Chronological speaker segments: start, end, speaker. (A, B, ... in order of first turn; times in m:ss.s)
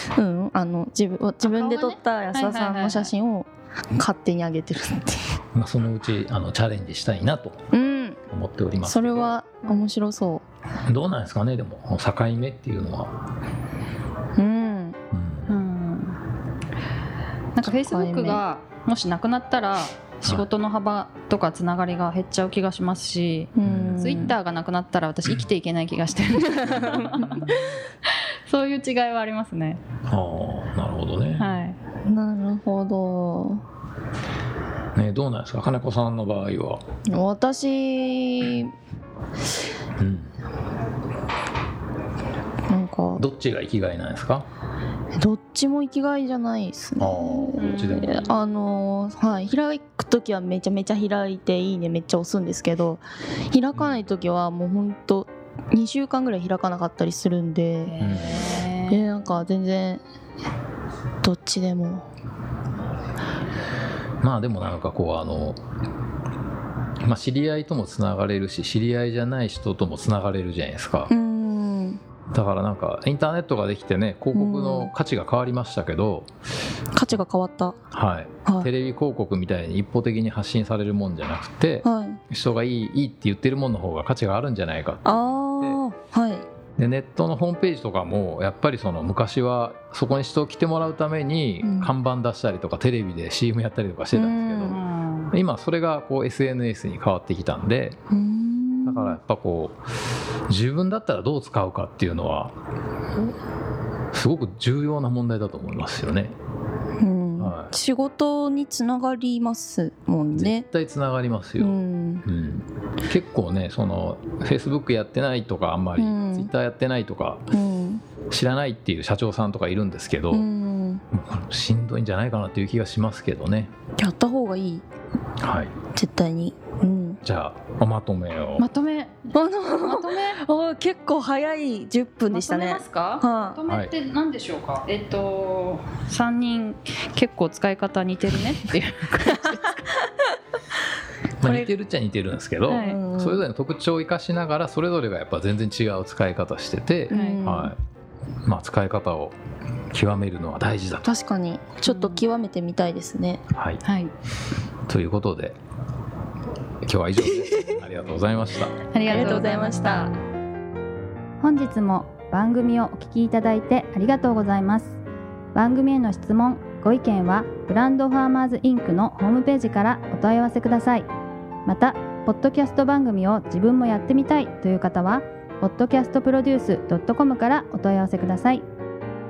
0:00.1-0:05.4 A
0:01.4-0:03.1 B
0:05.5-0:07.7 C
0:07.7-0:08.2 A
0:08.3-0:09.3 C
0:08.8-0:10.4 A
0:10.8-0:13.2 C
0:14.4-0:15.0 A
0:15.1-0:15.5 C
0:15.5-0:16.2 B
0:17.5-0:29.8 B
0:17.6-0:18.4 A
0:23.6-0:24.4 A
0:23.6-0:24.3 C
0:26.8-0:27.6 C
0:30.1-0:31.4 C
0:31.4-0:31.8 B
0:32.1-0:33.6 A
0:34.9-0:36.8 C
0:37.1-0:38.7 A
0:40.0-0:40.3 C
0:42.7-0:43.2 A
0:43.2-0:44.4 C
0:45.2-0:58.0 A
0:47.0-0:48.2 C
0:47.6-0:48.3 B
0:53.8-0:54.0 C
0:57.8-0:59.1 B
0:58.0-0:58.7 C
0:58.9-1:00.0 A
1:01.2-1:02.0 A
1:04.2-1:05.6 C
1:07.0-1:11.1 C
1:11.1-1:12.0 A
1:12.3-1:16.3 C
1:14.3-1:14.9 A
1:16.9-1:17.8 A
1:17.9-1:25.8 C
1:21.8-1:22.2 A
1:25.0-1:26.4 A
1:26.8-1:34.8 C
1:31.6-1:31.9 A
1:34.1-1:34.8 A
1:34.7-1:35.3 B
1:35.3-1:38.0 C
1:38.1-1:39.2 A
1:38.8-1:39.8 C
1:40.5-1:42.5 C
1:44.1-1:46.3 C
1:47.0-1:50.6 A
1:47.4-1:47.7 C
1:50.3-1:57.5 C
1:51.6-1:52.2 A
1:56.0-1:56.5 A
1:57.5-1:58.0 A
1:58.3-2:00.5 C
2:00.3-2:01.0 A
2:01.1-2:03.7 C
2:04.0-2:04.8 A
2:05.4-2:05.7 C
2:05.9-2:07.2 A
2:07.2-2:08.6 C
2:08.6-2:10.4 B
2:09.3-2:13.6 A
2:12.3-2:19.9 B
2:21.4-2:27.8 C
2:21.4-2:21.7 A
2:22.7-2:23.0 B
2:22.7-2:23.4 A
2:27.1-2:27.4 B
2:27.1-2:27.7 A
2:28.4-2:29.4 C
2:29.9-2:31.1 C
2:31.0-2:33.4 A
2:31.8-2:32.2 B
2:33.5-2:33.8 C
2:33.8-2:34.1 B
2:34.9-2:35.6 C
2:36.8-2:38.9 C
2:38.9-2:40.1 B
2:39.0-2:40.1 A
2:41.4-2:43.2 B
2:41.5-2:44.9 D
2:45.5-2:51.1 D
2:51.6-2:58.6 D